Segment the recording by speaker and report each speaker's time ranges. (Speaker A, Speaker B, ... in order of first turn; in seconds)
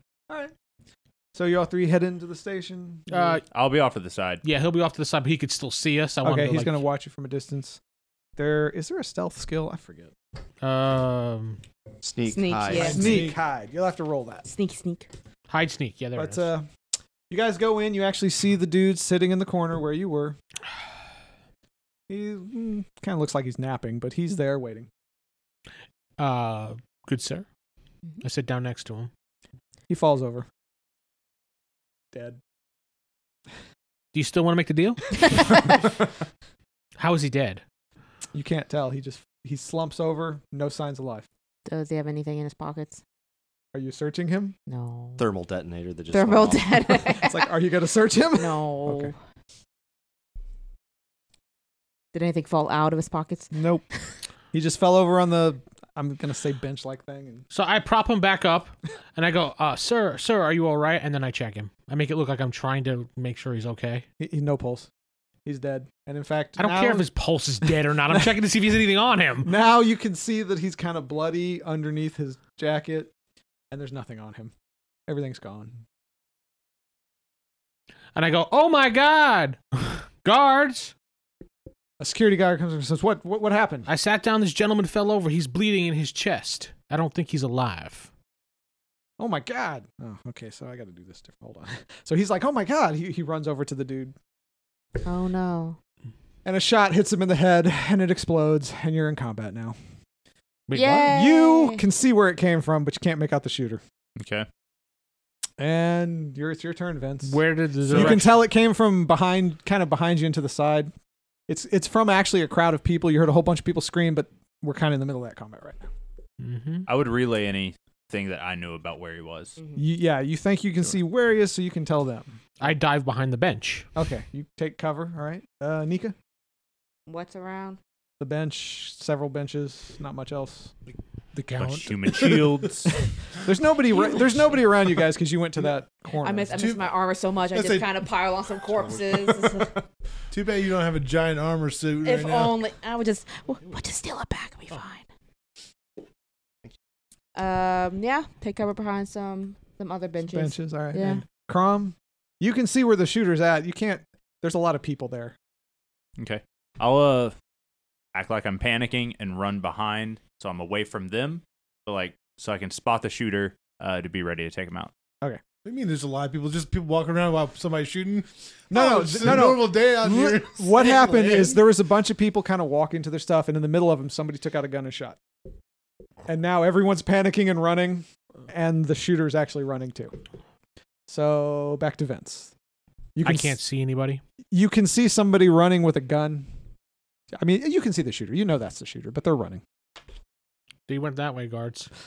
Speaker A: 1.4-3.4, 6.2-7.8, 8.4-10.1, 12.7-14.4, 16.1-16.7, 17.3-20.4, 22.1-24.9, 29.9-30.5, 32.1-32.4, 38.3-41.3, 43.7-44.6, 47.1-49.1, 53.5-53.9, 54.5-57.5, 64.2-64.9, 65.4-67.1, 67.6-68.3, 69.4-73.1, 73.7-74.5, 75.1-75.8, 82.0-83.9, 89.2-94.1, 96.4-99.8, 101.1-103.8, 105.6-110.9, 111.5-115.9, 119.8-122.4, 123.9-126.1, 128.2-130.7, 133.4-136.6, 150.2-155.3, 168.7-175.2, 176.2-180.2, 181.1-182.5, 183.2-183.6, 184.5-186.5, 187.3-189.6
Speaker B: 3.1-3.4, 4.4-6.9, 10.6-11.6, 15.5-16.5, 26.2-27.4, 28.2-29.1, 34.1-35.2, 37.0-37.6, 57.5-64.0, 66.6-69.5, 78.1-80.9, 83.9-88.1, 100.7-101.1, 107.2-108.4, 116.4-116.9, 122.6-123.9, 183.2-184.2, 190.9-191.9
Speaker C: 3.5-4.4, 104.2-104.5, 116.9-119.6, 131.6-132.9, 156.2-157.3, 158.1-164.9
Speaker D: 12.0-13.3, 45.2-46.8
Speaker E: 12.2-13.3, 14.4-15.1, 35.3-35.6, 41.6-43.0, 44.7-45.2, 46.1-47.5, 48.4-49.1, 52.1-53.5, 95.0-95.8, 100.7-101.8, 119.6-119.8, 127.1-127.8, 136.2-139.8, 142.0-145.1, 147.3-151.2
Speaker F: 12.7-13.4, 131.3-132.9, 136.6-136.9, 137.5-138.0, 138.9-139.6, 140.3-142.6, 165.7-171.6